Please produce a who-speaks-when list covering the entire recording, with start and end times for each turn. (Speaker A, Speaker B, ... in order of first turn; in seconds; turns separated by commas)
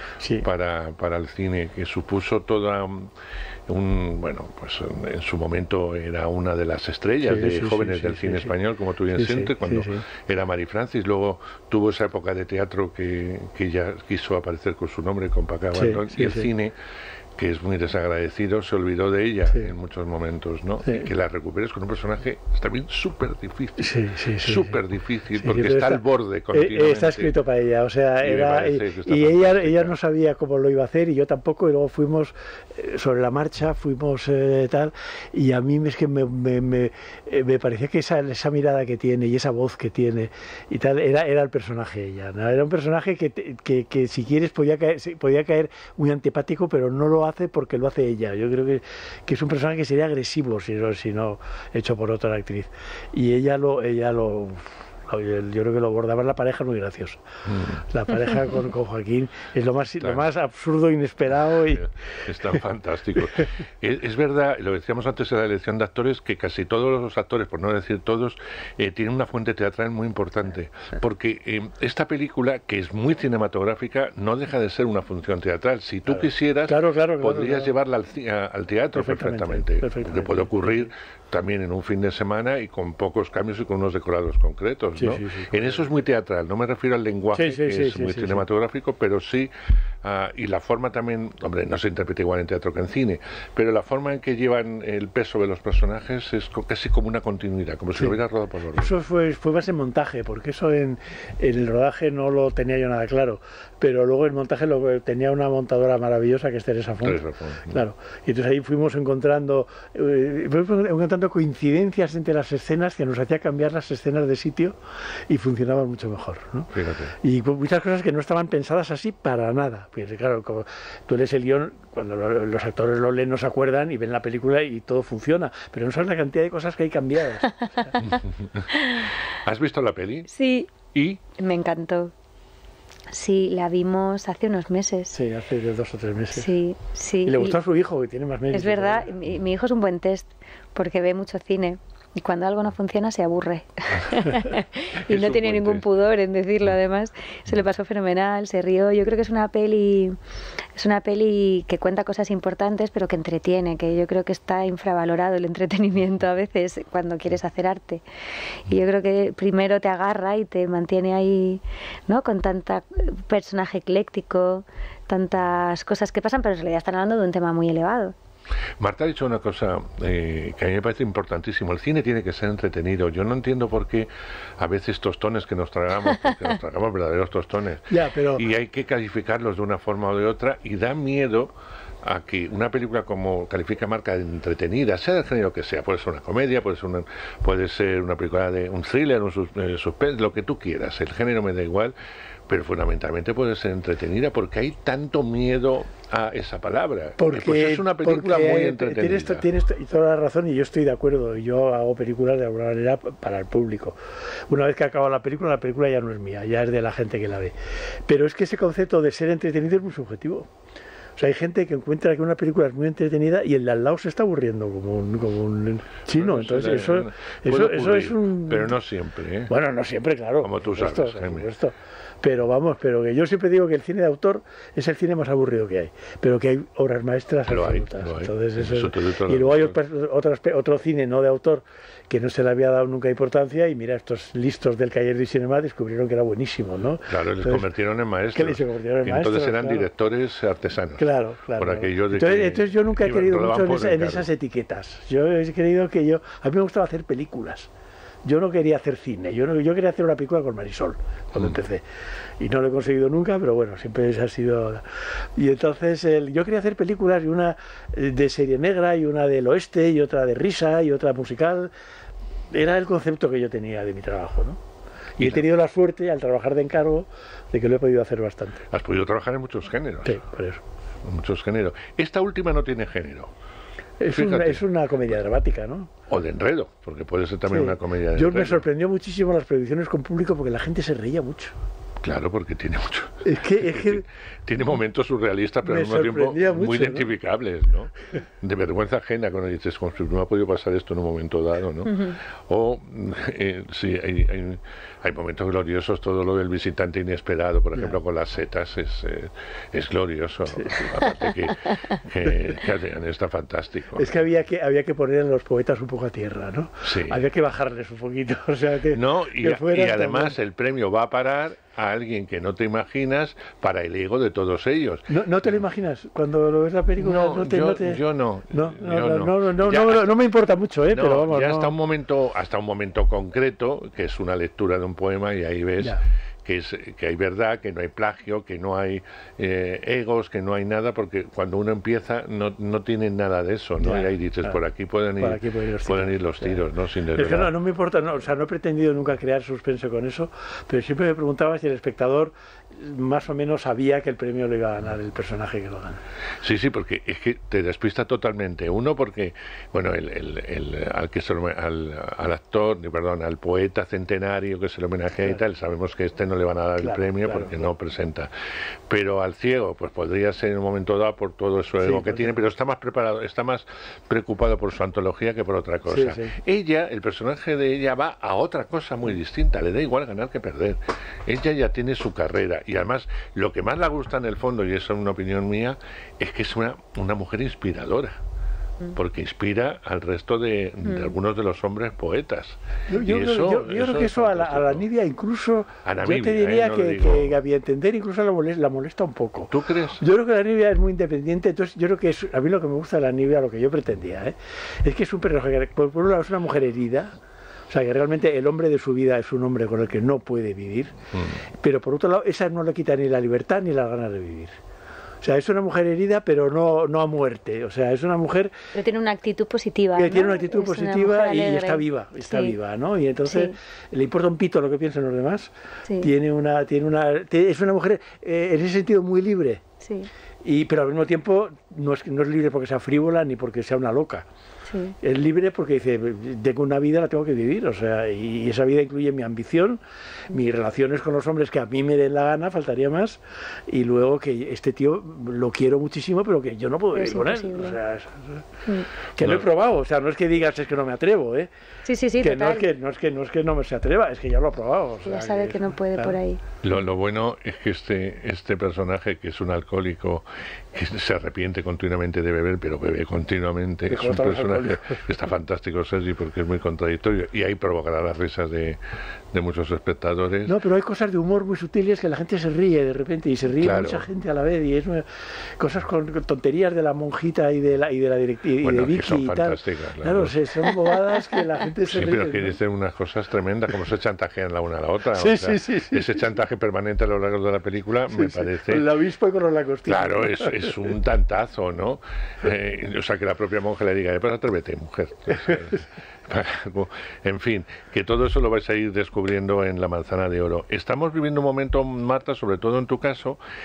Speaker A: 0.2-0.5, Speaker B: 0.4-3.1, Speaker B: 3.7-16.7, Speaker A: 7.2-8.5, Speaker A: 9.1-10.0, Speaker A: 15.7-16.5, Speaker B: 17.4-27.3, Speaker A: 23.8-24.8, Speaker A: 25.4-57.2, Speaker B: 28.2-29.9, Speaker B: 57.5-57.8, Speaker A: 57.8-61.9, Speaker B: 60.0-60.2, Speaker B: 61.6-98.9, Speaker A: 76.1-77.7, Speaker A: 78.9-80.9, Speaker A: 85.0-85.8, Speaker A: 87.3-88.4, Speaker A: 98.7-114.8, Speaker B: 107.0-107.8, Speaker A: 115.3-127.9, Speaker B: 116.7-117.1, Speaker B: 128.1-128.7, Speaker C: 128.7-129.1, Speaker B: 129.3-130.3, Speaker C: 130.3-130.7, Speaker B: 130.9-131.2, Speaker C: 131.4-132.1, Speaker C: 133.1-135.2, Speaker A: 135.1-136.5, Speaker C: 136.3-137.6, Speaker A: 137.2-139.1, Speaker C: 138.5-150.2, Speaker B: 145.1-145.8, Speaker C: 150.7-158.0, Speaker C: 158.7-168.1, Speaker B: 168.8-191.9, Speaker A: 177.9-178.4, Speaker B: 192.5-199.4, Speaker A: 197.2-210.5, Speaker A: 211.2-218.7, Speaker B: 216.1-219.5, Speaker A: 219.5-237.7, Speaker B: 220.4-221.5, Speaker B: 227.5-229.8, Speaker B: 237.1-244.3, Speaker A: 238.3-239.9, Speaker A: 241.0-247.7, Speaker A: 248.2-251.8, Speaker A: 252.4-261.7, Speaker A: 262.5-264.6, Speaker A: 265.2-268.6, Speaker B: 268.7-270.2, Speaker A: 270.0-270.6, Speaker B: 271.0-273.3, Speaker A: 274.0-275.9, Speaker B: 274.1-274.6, Speaker B: 276.1-278.6, Speaker A: 277.5-281.5, Speaker B: 282.0-304.1, Speaker A: 283.2-284.0, Speaker A: 285.6-287.1, Speaker A: 300.5-300.9, Speaker A: 304.0-310.4, Speaker B: 306.8-307.2, Speaker B: 308.9-315.1, Speaker A: 315.1-321.7, Speaker B: 317.0-320.1, Speaker B: 320.9-337.5, Speaker A: 333.8-334.6, Speaker A: 335.2-336.6, Speaker A: 337.1-346.0, Speaker B: 346.4-358.3, Speaker A: 356.8-357.5, Speaker B: 358.9-378.2, Speaker A: 361.8-362.4, Speaker A: 365.9-366.4, Speaker B: 378.9-384.8, Speaker A: 382.9-397.2, Speaker B: 385.8-387.3, Speaker B: 389.5-390.0, Speaker A: 397.7-400.9, Speaker B: 401.1-401.4, Speaker A: 401.5-404.6, Speaker A: 405.2-408.5, Speaker C: 408.7-412.5, Speaker A: 409.9-419.6, Speaker C: 413.2-413.6, Speaker C: 419.8-420.1, Speaker A: 420.4-424.3, Speaker C: 424.7-424.9, Speaker A: 425.0-438.4, Speaker C: 436.9-437.8, Speaker A: 439.2-441.5, Speaker C: 441.9-442.7, Speaker A: 442.2-446.2, Speaker C: 445.0-446.4, Speaker B: 446.6-458.8, Speaker A: 453.9-455.0, Speaker B: 459.3-460.5, Speaker A: 460.4-465.1, Speaker B: 463.6-464.1, Speaker A: 465.6-472.6, Speaker B: 468.6-470.4, Speaker B: 471.9-478.9, Speaker A: 475.1-476.2, Speaker A: 478.1-480.9, Speaker B: 479.9-493.4